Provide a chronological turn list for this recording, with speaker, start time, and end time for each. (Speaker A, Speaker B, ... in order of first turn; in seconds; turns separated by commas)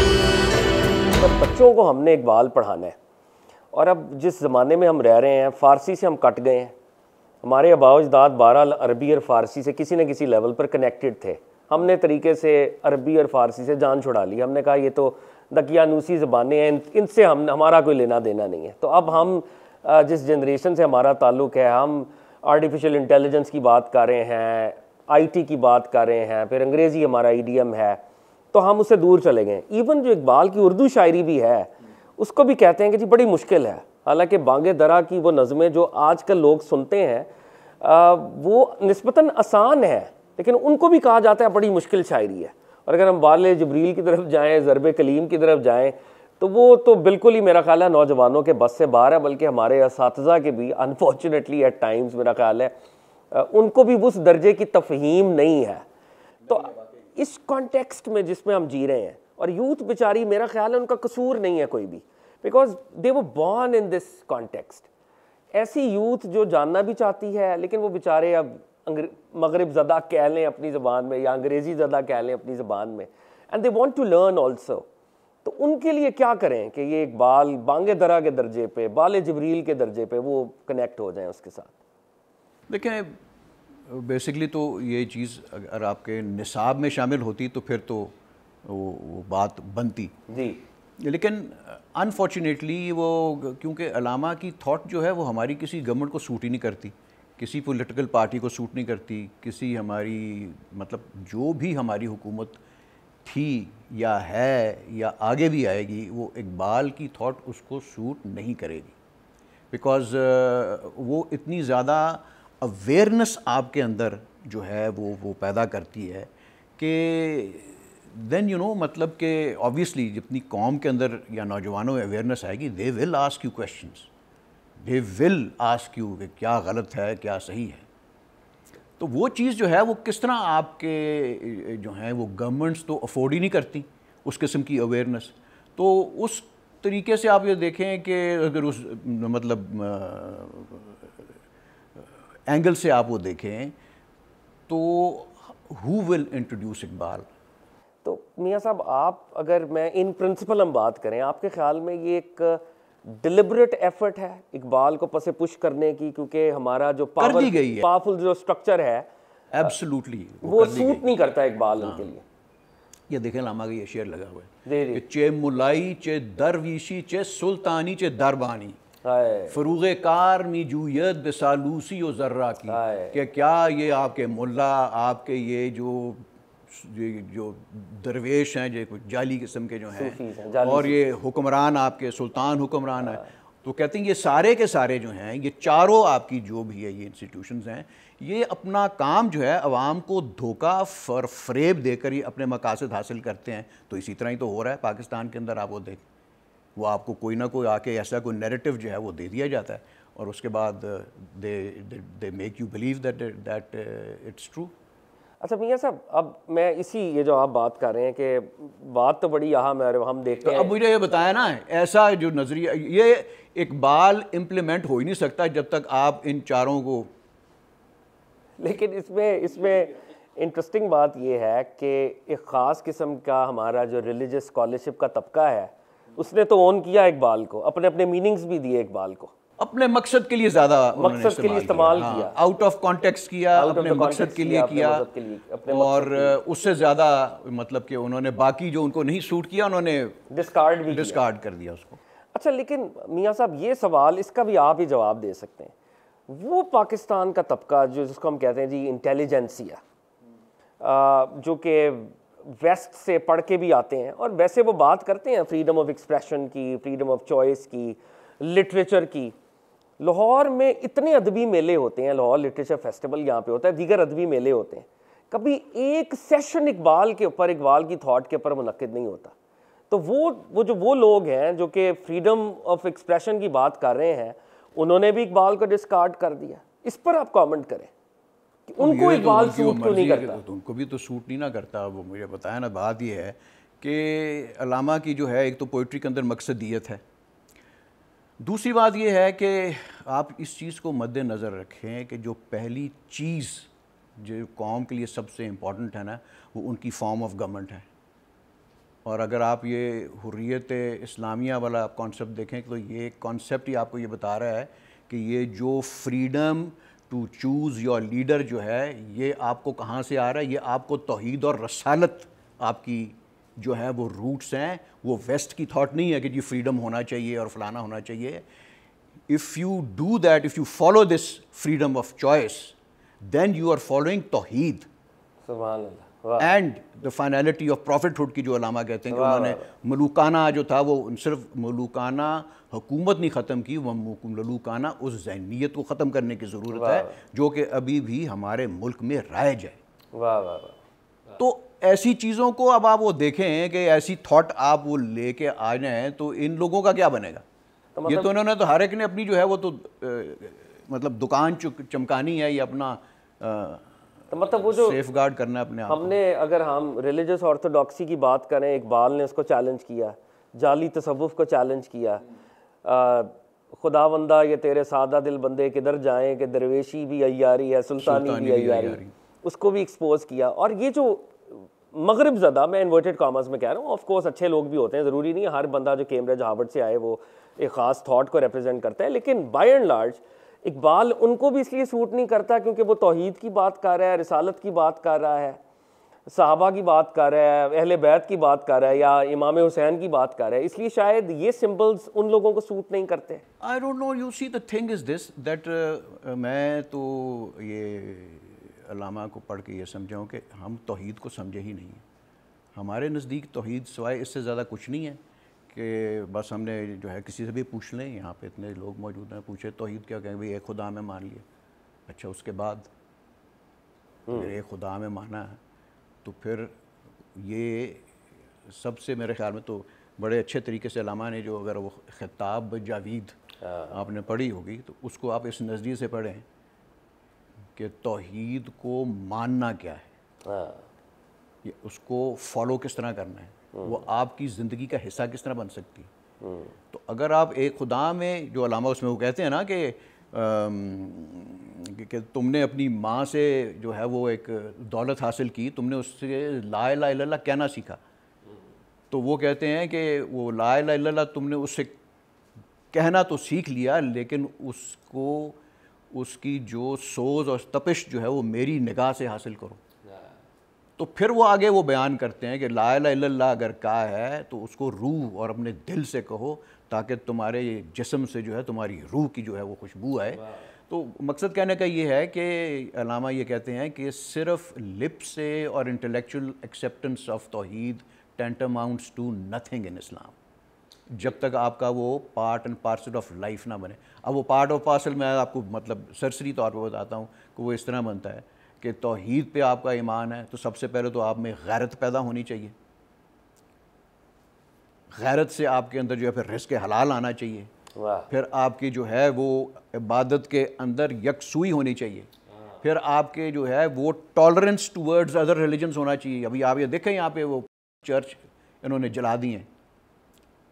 Speaker A: 1.1-3.0, Speaker A: 3.7-6.8, Speaker A: 7.4-28.0, Speaker A: 28.5-37.3, Speaker A: 37.8-52.8, Speaker A: 53.3-55.9, Speaker A: 56.5-64.9, Speaker A: 65.5-74.9, Speaker A: 75.4-81.7, Speaker B: 82.7-83.2, Speaker B: 83.9-88.1, Speaker B: 88.6-90.2, Speaker A: 90.3-90.6, Speaker B: 91.0-102.6, Speaker B: 103.2-109.0, Speaker B: 109.7-124.1, Speaker B: 124.8-127.9, Speaker B: 129.0-141.0, Speaker B: 142.5-143.8, Speaker B: 144.7-147.3, Speaker A: 148.0-159.1, Speaker B: 157.2-157.9, Speaker B: 159.5-161.1, Speaker A: 160.4-162.2, Speaker B: 161.8-162.1, Speaker B: 163.1-168.8, Speaker A: 164.7-165.1, Speaker A: 169.0-169.6, Speaker B: 169.5-196.0, Speaker A: 172.7-173.2, Speaker A: 179.9-181.0, Speaker B: 196.8-204.7, Speaker A: 205.4-210.7, Speaker B: 210.4-217.1, Speaker A: 218.6-229.3, Speaker B: 229.6-235.1, Speaker A: 230.9-232.3, Speaker A: 233.5-236.4, Speaker B: 235.7-240.2, Speaker A: 240.3-241.2, Speaker B: 240.9-242.0, Speaker A: 242.3-245.7, Speaker A: 246.3-249.8, Speaker A: 250.8-259.4, Speaker A: 260.0-269.3, Speaker A: 269.9-277.9, Speaker A: 278.7-280.4, Speaker B: 278.8-287.0, Speaker B: 288.4-297.9, Speaker B: 299.1-318.4, Speaker B: 319.3-324.9, Speaker A: 325.5-326.5, Speaker B: 326.4-339.8, Speaker A: 329.1-329.7, Speaker A: 336.7-337.2, Speaker A: 340.1-340.8, Speaker B: 341.4-347.4, Speaker A: 348.0-348.3, Speaker B: 348.1-353.9, Speaker A: 354.3-355.0, Speaker B: 354.5-356.2, Speaker A: 355.9-362.2, Speaker A: 362.8-385.6, Speaker B: 368.0-369.1, Speaker A: 386.3-393.4, Speaker B: 393.6-402.0, Speaker B: 402.8-411.4, Speaker B: 412.1-412.9, Speaker A: 414.3-414.5, Speaker B: 414.3-415.6, Speaker B: 416.2-416.7, Speaker B: 417.4-418.1, Speaker B: 418.7-423.4, Speaker A: 423.6-424.0, Speaker B: 423.9-426.4, Speaker B: 427.8-430.1, Speaker A: 430.4-430.9, Speaker B: 431.6-436.1, Speaker A: 433.7-434.0, Speaker A: 436.4-436.7, Speaker B: 436.9-448.0, Speaker B: 449.1-452.0, Speaker B: 452.9-455.6, Speaker B: 456.1-459.8, Speaker A: 460.1-460.4, Speaker B: 461.0-480.4, Speaker B: 481.1-492.8, Speaker B: 495.1-497.7, Speaker A: 497.9-498.3, Speaker B: 498.3-502.3, Speaker B: 502.8-509.7